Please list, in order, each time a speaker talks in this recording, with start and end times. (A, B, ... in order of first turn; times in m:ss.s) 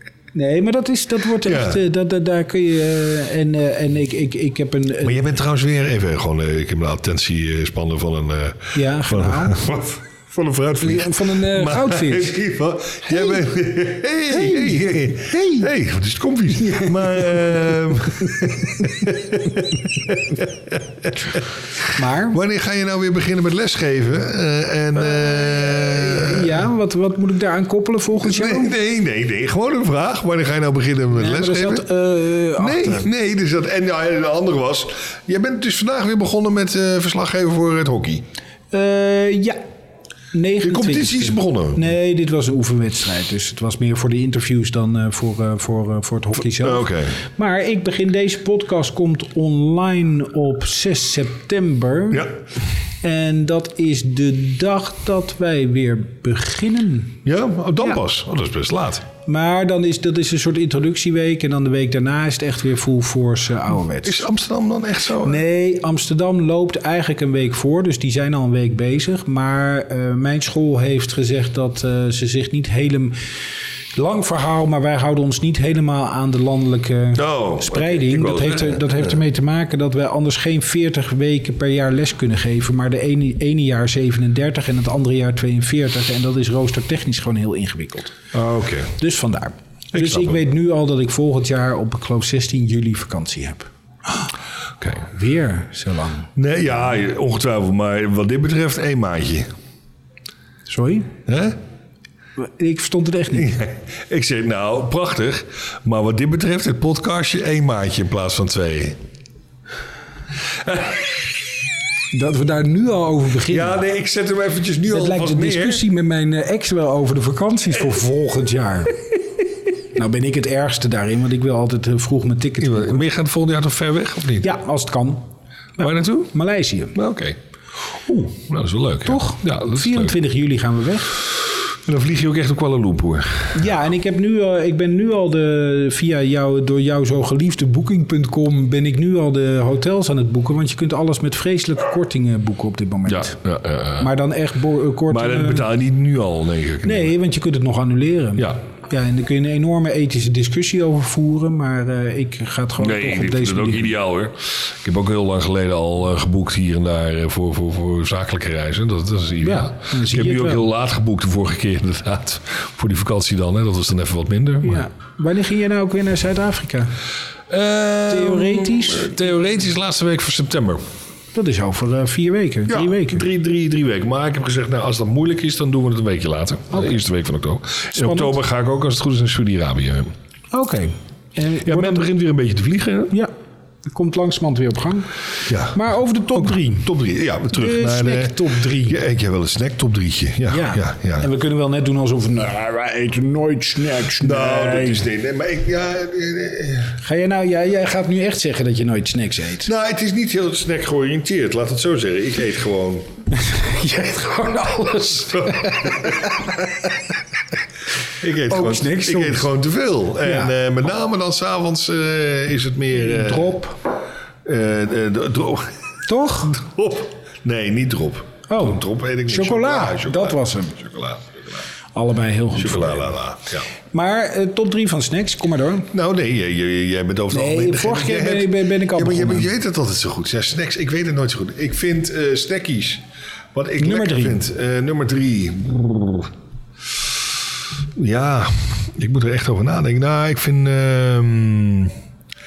0:00.3-0:05.2 A
0:01.4-0:01.8 B
0:05.0-0:26.6 B
0:08.7-0:09.6 A
0:10.8-0:12.4 A
0:14.3-0:15.7 A
0:16.5-0:17.6 A
0:18.2-0:18.9 A
0:21.9-0:22.4 A
0:25.3-0:28.7 A
0:28.2-0:31.8 B
0:31.1-0:33.1 A
0:32.6-0:38.2 B
0:38.7-0:39.6 A
0:40.3-0:52.3 A
0:40.6-0:41.9 B
0:46.5-0:47.2 B
0:53.0-0:57.2 A
0:57.2-0:59.0 B
0:59.2-1:04.2 A
1:04.0-1:05.4 B
1:05.2-1:13.2 A
1:13.9-1:28.1 A
1:17.1-1:19.1 B
1:28.3-1:28.9 B
1:29.0-1:34.3 A
1:29.9-1:30.4 B
1:34.8-1:35.0 B
1:35.0-1:36.3 A
1:36.4-1:39.5 B
1:40.7-1:41.1 A
1:41.2-1:41.6 B
1:42.4-1:43.5 A
1:43.3-1:49.0 B
1:50.6-1:51.1 B
1:52.1-1:53.8 A
1:53.5-1:55.8 B
1:54.9-1:59.0 A
1:59.9-2:03.0 A
2:02.6-2:04.5 B
2:04.4-2:05.2 A
2:05.8-2:07.0 A
2:05.8-2:06.3 B
2:06.9-2:10.2 B
2:09.0-2:11.2 A
2:11.8-2:13.6 B
2:13.5-2:23.4 A
2:23.1-2:24.1 B
2:24.0-2:25.7 A
2:25.1-2:27.1 B
2:26.8-2:33.9 A
2:32.8-2:44.8 B
2:39.4-2:40.6 A
2:44.6-2:46.9 A
2:47.5-2:50.8 B
2:48.1-2:49.2 A
2:51.3-2:53.2 A
2:52.7-3:00.1 B
2:58.0-2:58.4 A
3:00.5-3:02.0 A
3:01.6-3:03.1 B
3:03.9-3:05.1 A
3:05.5-3:05.8 B
3:05.7-3:06.9 A
3:06.3-3:11.3 B
3:07.5-3:09.0 A
3:10.5-3:15.0 A
3:14.2-3:17.0 B
3:17.0-3:19.7 A
3:19.6-3:23.1 B
3:23.3-3:26.9 A
3:25.3-3:26.4 B
3:28.2-3:33.6 B
3:28.4-3:29.5 A
3:30.2-3:30.5 A
3:33.0-3:33.8 A
3:34.4-3:35.7 B
3:36.1-3:36.6 A
3:36.5-3:41.6 B
3:38.5-3:40.8 A
3:41.9-3:43.1 A
3:42.5-3:43.6 B
3:43.9-3:45.9 A
3:45.9-3:53.0 B
3:47.3-3:49.5 A
3:53.5-3:56.3 B
3:53.8-3:54.4 A
3:58.0-4:01.9 B